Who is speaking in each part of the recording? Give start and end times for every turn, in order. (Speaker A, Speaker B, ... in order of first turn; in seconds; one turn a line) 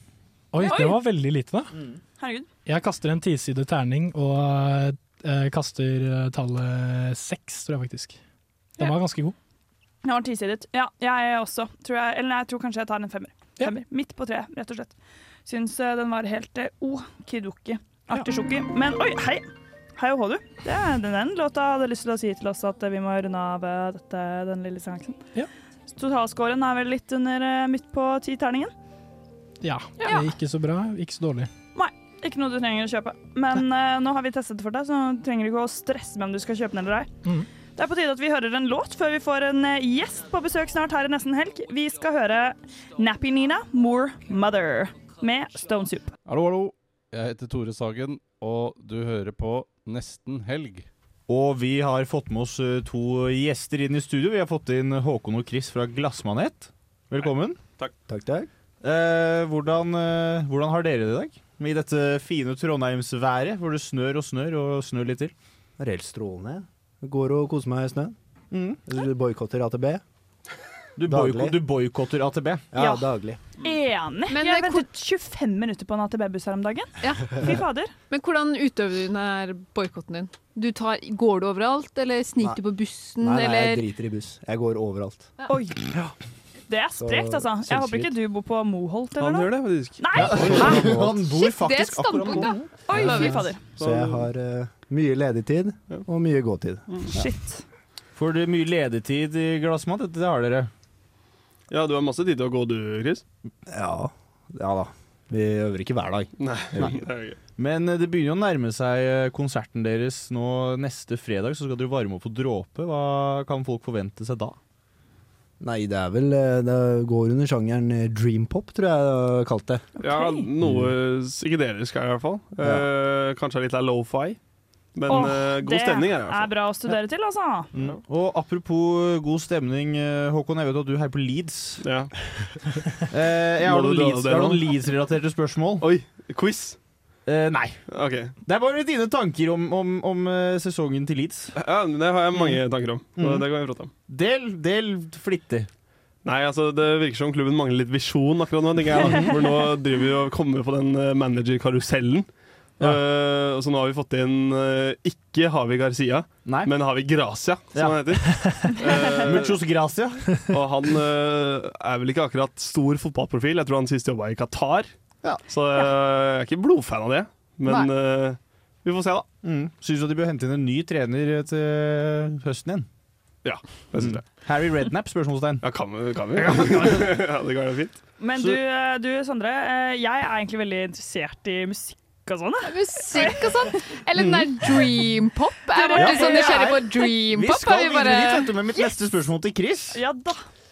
Speaker A: 0.5-1.7
Speaker B: 0.6-0.9
Speaker C: 0.6-0.9
Speaker B: 2.2-2.5
Speaker A: 2.6-8.2
Speaker A: 8.8-9.3
Speaker B: 10.0-14.9
Speaker B: 15.4-19.4
Speaker B: 20.0-25.2
Speaker B: 25.9-28.7
Speaker A: 29.6-31.5
Speaker B: 31.7-37.1
Speaker B: 37.8-46.1
Speaker D: 46.2-50.9
Speaker E: 51.3-57.6
Speaker F: 57.2-57.9
Speaker G: 58.1-58.5
Speaker E: 58.8-65.3
Speaker G: 65.8-68.1
Speaker E: 68.5-68.8
Speaker G: 68.8-70.0
Speaker E: 71.0-72.7
Speaker G: 71.1-71.6
Speaker G: 72.7-73.4
Speaker B: 72.8-73.1
Speaker B: 73.6-77.9
Speaker C: 74.3-74.8
Speaker C: 77.0-77.6
Speaker C: 78.1-83.8
Speaker G: 83.2-85.3
Speaker B: 85.5-85.8
Speaker B: 86.7-90.9
Speaker G: 87.0-88.1
Speaker F: 89.2-90.9
Speaker E: 90.2-92.8
Speaker G: 90.2-91.2
Speaker C: 91.3-93.5
Speaker B: 92.9-93.7
Speaker G: 93.0-97.2
Speaker F: 93.8-94.3
Speaker B: 97.1-97.6
Speaker E: 98.1-100.7
Speaker F: 101.7-103.2
Speaker G: 103.7-107.0
Speaker F: 106.4-107.4
Speaker E: 107.6-114.6
Speaker G: 115.6-119.9
Speaker F: 120.0-124.4
Speaker B: 120.0-120.5
Speaker G: 120.6-120.9
Speaker G: 122.6-122.9
Speaker F: 124.9-126.9
Speaker B: 125.1-127.7
Speaker E: 127.7-131.8
Speaker F: 131.8-132.1
Speaker E: 133.1-135.8
Speaker F: 133.6-134.8
Speaker F: 135.8-136.8
Speaker E: 137.2-137.8
Speaker F: 137.9-138.3
Speaker E: 138.4-141.5
Speaker F: 141.6-143.9
Speaker E: 143.2-143.4
Speaker E: 144.1-145.7
Speaker F: 146.2-152.3
Speaker E: 149.0-149.3
Speaker F: 152.8-159.6
Speaker E: 156.4-156.7
Speaker E: 157.7-158.4
Speaker E: 159.2-160.3
Speaker F: 160.5-164.9
Speaker F: 165.5-169.3
Speaker E: 169.4-172.9
Speaker F: 173.4-174.2
Speaker E: 174.0-175.6
Speaker F: 175.6-178.0
Speaker E: 176.5-176.9
Speaker B: 178.2-183.8
Speaker E: 178.3-178.6
Speaker C: 182.6-188.5
Speaker E: 184.1-184.7
Speaker B: 185.7-186.8
Speaker E: 185.9-190.0
Speaker B: 189.9-190.4